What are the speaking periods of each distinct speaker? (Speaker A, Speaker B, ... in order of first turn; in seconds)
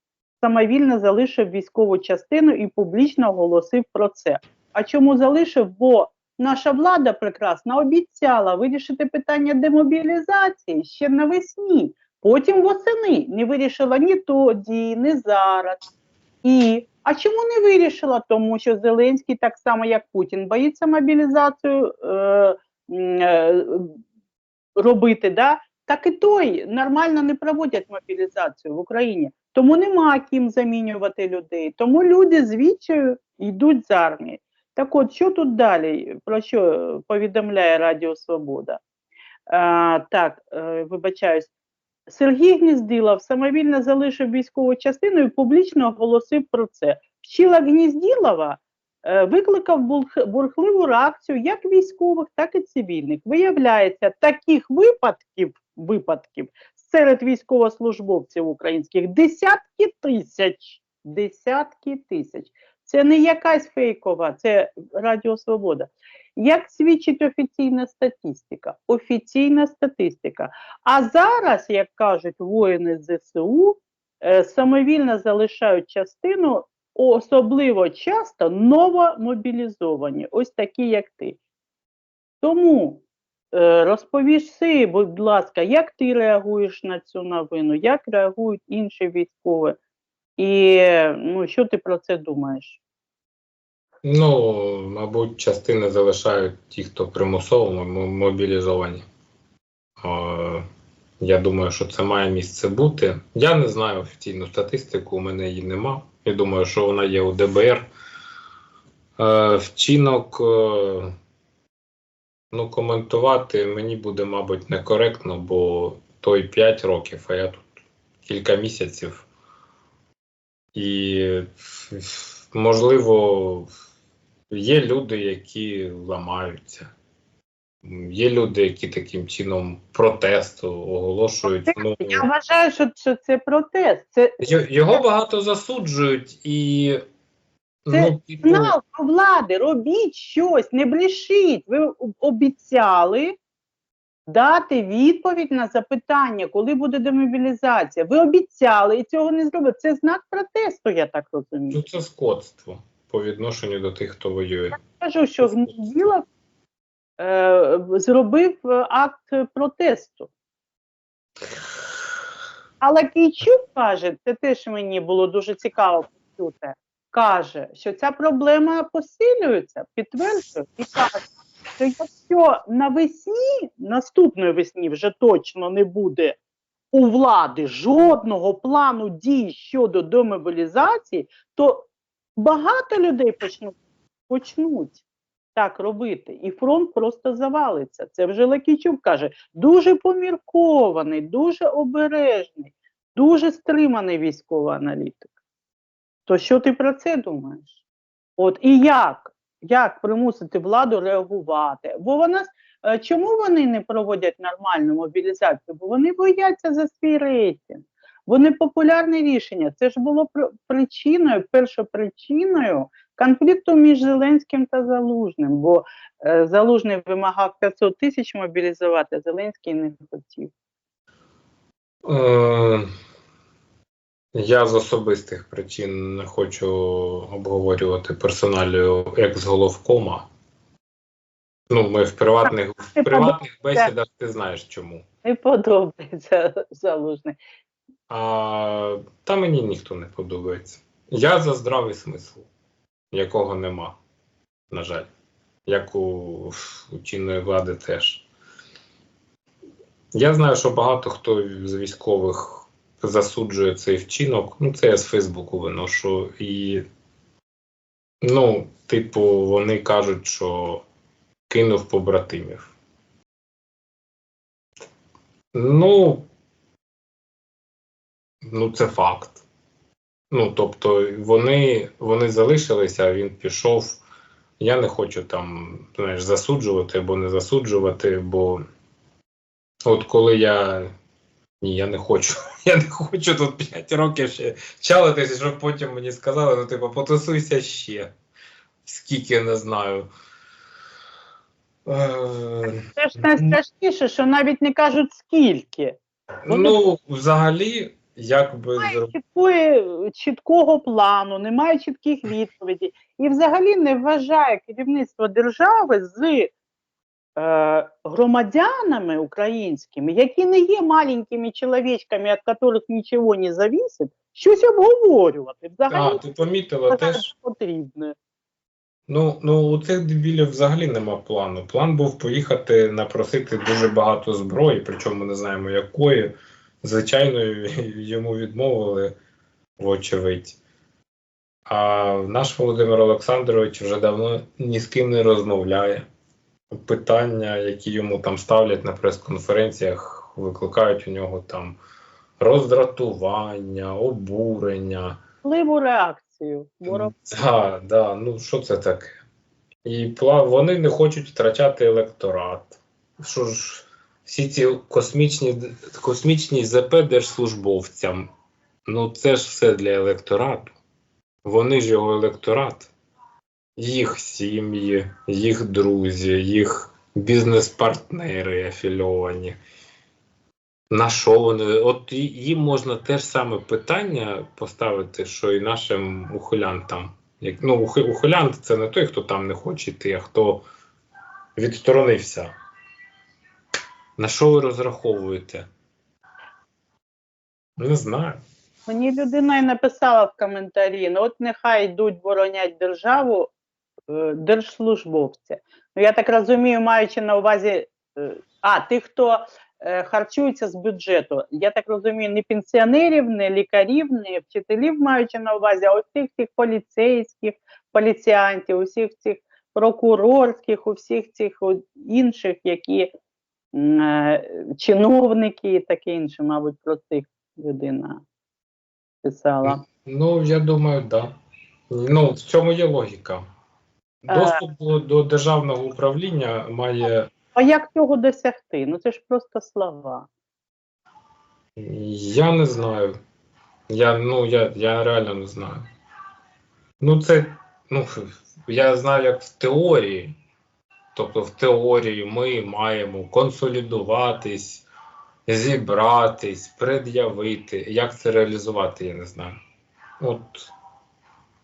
Speaker A: 0.4-15.8, 16.4-24.0, 24.8-38.8, 39.5-41.5, 42.1-81.4, 82.4-89.8, 90.4-92.8, 131.5-135.0, 137.9-143.4, 144.3-151.8, 154.8-156.2, 157.2-160.3, 162.8-171.3, 171.8-176.4, 176.9-183.8, 184.3-185.0, 185.6-195.3, 196.3-197.8, 198.4-220.5, 232.5-233.9, 235.2-237.4, 293.0-296.0, 298.8-306.5, 307.4-316.2, 316.9-318.1, 345.4-347.1, 388.9-393.5, 394.1-413.1, 413.7-418.2, 419.2-419.8, 424.3-424.6, 427.6-430.3
Speaker B: 94.0-99.0, 100.0-100.6, 101.2-107.9, 109.2-111.1, 112.5-117.7, 118.2-119.3, 120.8-123.7, 124.5-126.9, 127.8-132.3, 134.4-137.0, 137.8-138.7, 151.7-154.8, 155.4-155.9, 222.1-222.9, 224.3-230.3, 231.7-235.0, 238.1-242.5, 243.1-244.0, 244.7-245.1, 245.7-248.3, 250.1-256.8, 258.2-260.8, 261.5-262.8, 265.5-266.3, 268.5-269.4, 270.3-274.0, 274.6-278.6, 279.9-280.9, 281.6-288.1, 288.9-290.1, 291.9-293.6, 296.5-299.1, 315.9-317.3, 319.1-329.1, 329.8-330.6, 331.7-336.1, 336.7-341.8, 342.4-345.2, 346.9-349.2, 349.9-358.3, 358.9-360.8, 361.4-362.9, 363.8-369.6, 370.9-380.6, 381.6-382.5, 384.2-385.7, 387.8-388.4, 419.6-421.3, 421.9-423.4, 424.2-427.3, 431.8-433.1, 433.9-435.9, 437.0-440.4, 441.1-444.9, 445.5-449.6, 450.2-450.7